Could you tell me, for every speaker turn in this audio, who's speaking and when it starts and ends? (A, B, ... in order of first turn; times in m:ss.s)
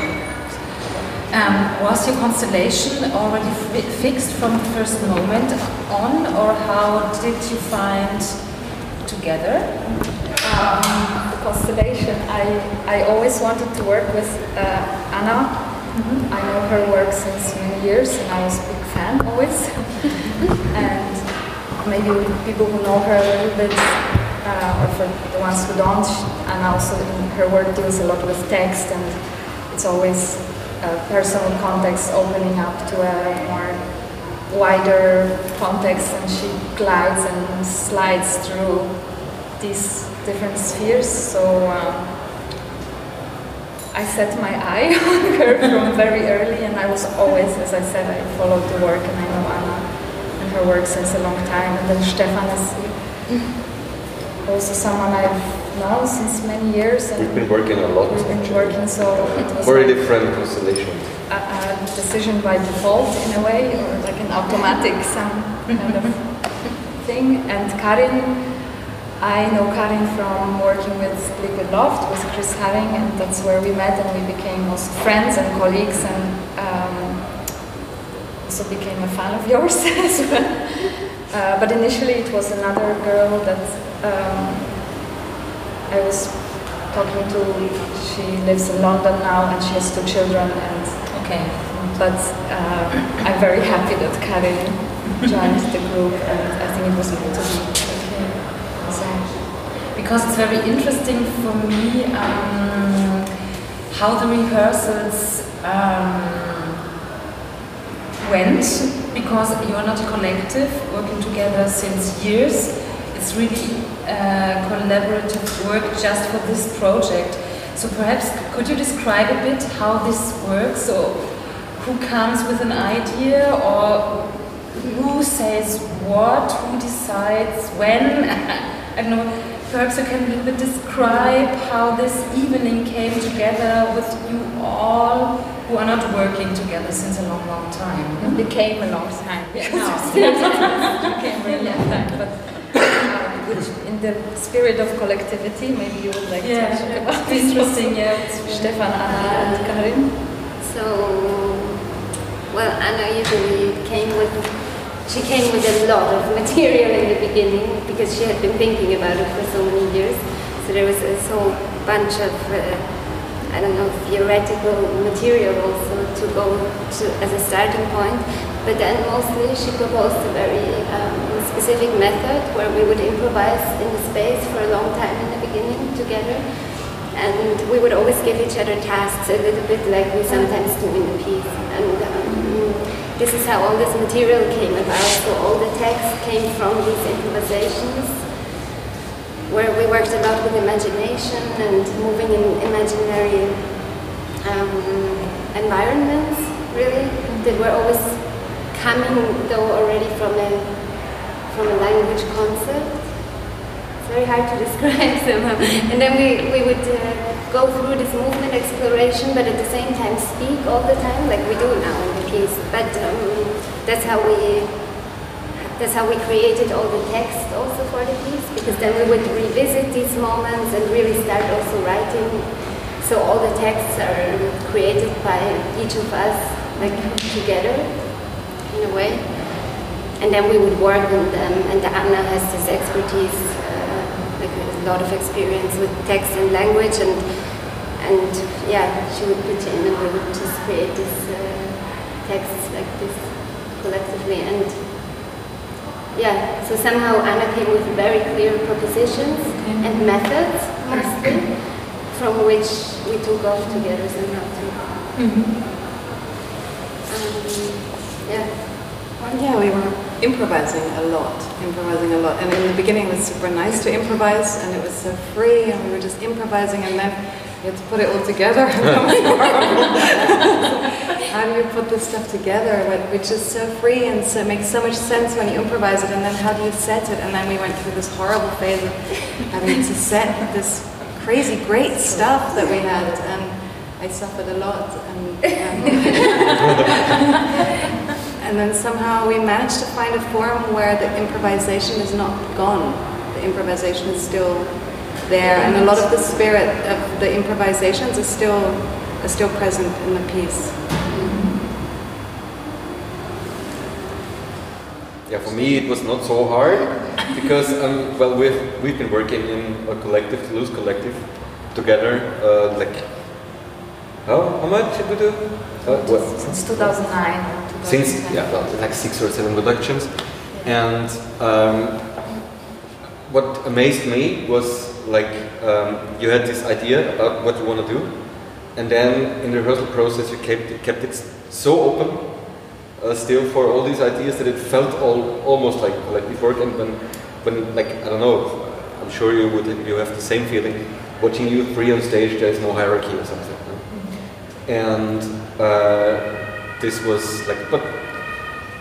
0:01.3-0:10.1 A
0:10.4-0:42.1 B
0:15.9-0:16.2 A
0:43.9-0:53.5 B
0:54.4-1:00.6 B
0:57.2-1:01.2 C
1:01.3-1:17.5 B
1:18.4-1:25.0 B
1:25.9-1:39.4 B
1:31.1-1:32.0 A
1:37.9-1:38.4 A
1:39.6-1:43.2 A
1:43.9-1:46.7 A
1:48.2-2:18.4 A
2:11.0-2:11.3 B
2:18.2-2:30.1 B
2:19.5-2:20.9 D
2:19.7-2:22.4 A
2:26.4-2:29.0 A
2:29.0-2:29.8 D
2:30.5-2:31.6 D
2:32.5-3:08.3 D
3:00.2-3:00.5 A
3:02.2-3:02.6 A
3:09.5-3:23.4 D
3:17.3-3:17.6 A
3:24.0-4:05.2 D
3:38.6-3:38.9 A
3:46.8-3:47.3 A
4:06.1-4:15.0 D
4:09.5-4:11.3 A
4:15.1-4:15.5 A
4:17.1-4:19.1 D
4:19.1-4:47.5 E
4:41.9-4:42.4 B
4:48.4-5:00.8 E
4:55.6-4:56.0 A
5:01.1-5:01.5 A
5:05.2-5:13.7 C
5:14.2-5:22.4 C
5:15.8-5:18.5 B
5:23.1-5:48.5 C
5:43.9-5:44.2 A